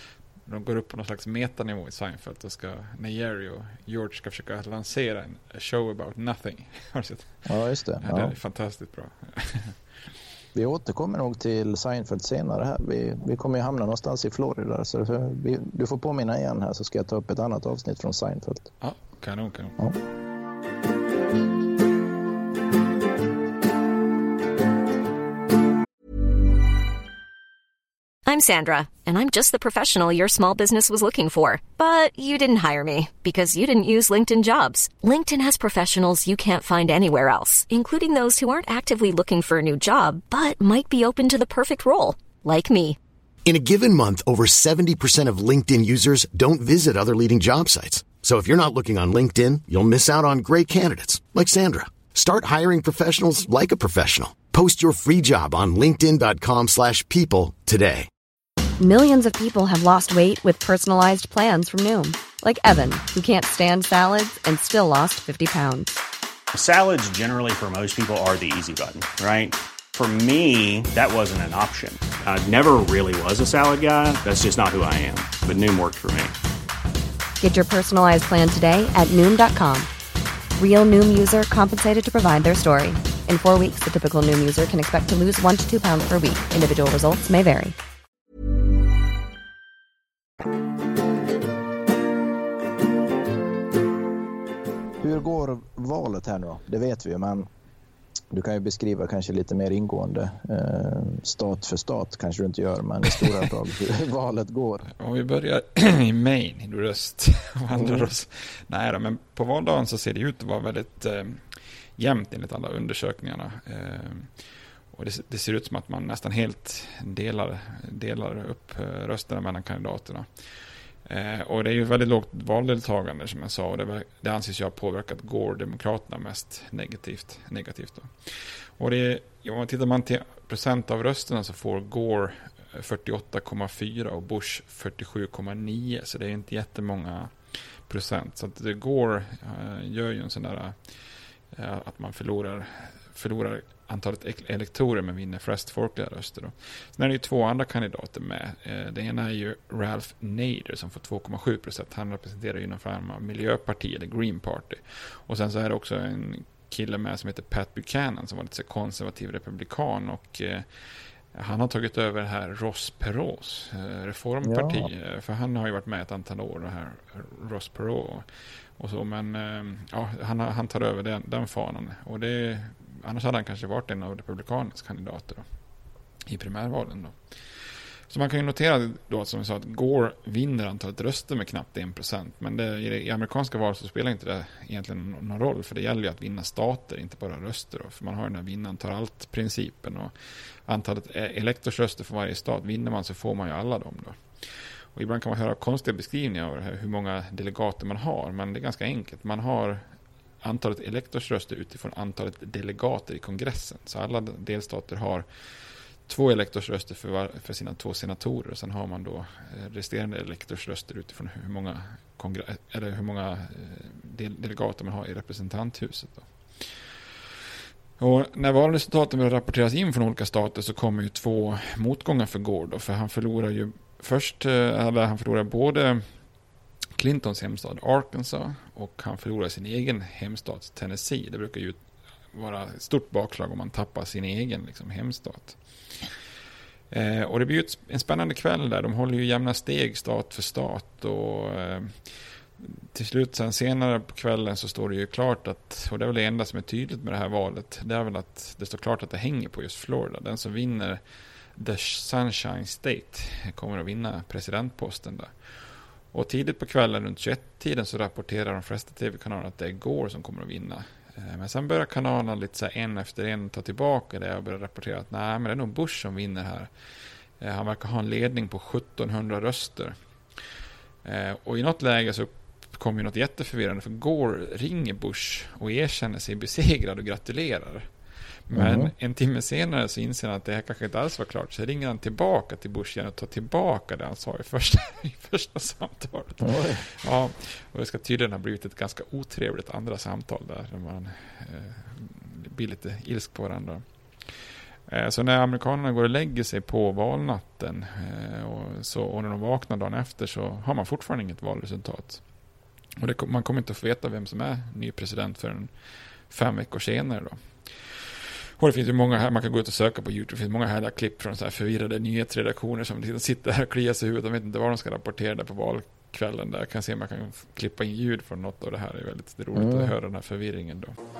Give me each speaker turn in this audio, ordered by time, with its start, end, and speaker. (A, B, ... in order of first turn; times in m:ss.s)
0:00.4-0:07.4 A
0:07.5-0:08.3 B
0:08.0-0:09.7 A
0:10.5-0:18.7 B
0:18.8-0:19.8 A
0:28.2-0:43.0 C
0:43.4-0:58.1 D
0:58.8-1:05.9 E
1:06.5-1:16.3 F
1:17.4-1:19.9 E
1:20.6-1:27.7 E
1:35.0-1:37.5 B
1:38.3-1:44.8 B
1:43.2-1:43.4 A
1:45.0-1:54.3 A
1:47.7-1:48.1 B
1:54.9-2:00.3 A
2:01.0-2:17.3 A
2:17.9-2:20.8 A
2:21.5-2:40.6 A
2:41.3-2:48.3 A
2:44.4-2:44.9 B
2:48.8-2:55.4 A
2:56.3-2:57.2 A
2:58.1-3:10.1 A
3:10.6-3:14.2 A
3:14.9-3:19.8 A
3:20.4-3:25.2 A
3:26.1-3:36.3 A
3:38.0-3:46.0 A
3:47.0-3:51.8 A
3:52.3-3:55.6 A
3:56.9-4:02.0 A
4:02.6-4:11.0 A
4:11.6-4:15.3 A
4:16.1-4:26.7 A
4:27.4-4:30.0 A
4:31.0-4:37.9 A
4:38.5-4:53.8 A
4:38.5-4:38.9 B
4:46.4-4:46.8 B
4:54.9-5:02.2 A
5:03.0-5:05.7 A
5:06.3-5:07.4 A
5:08.6-5:20.9 A
5:19.5-5:19.9 B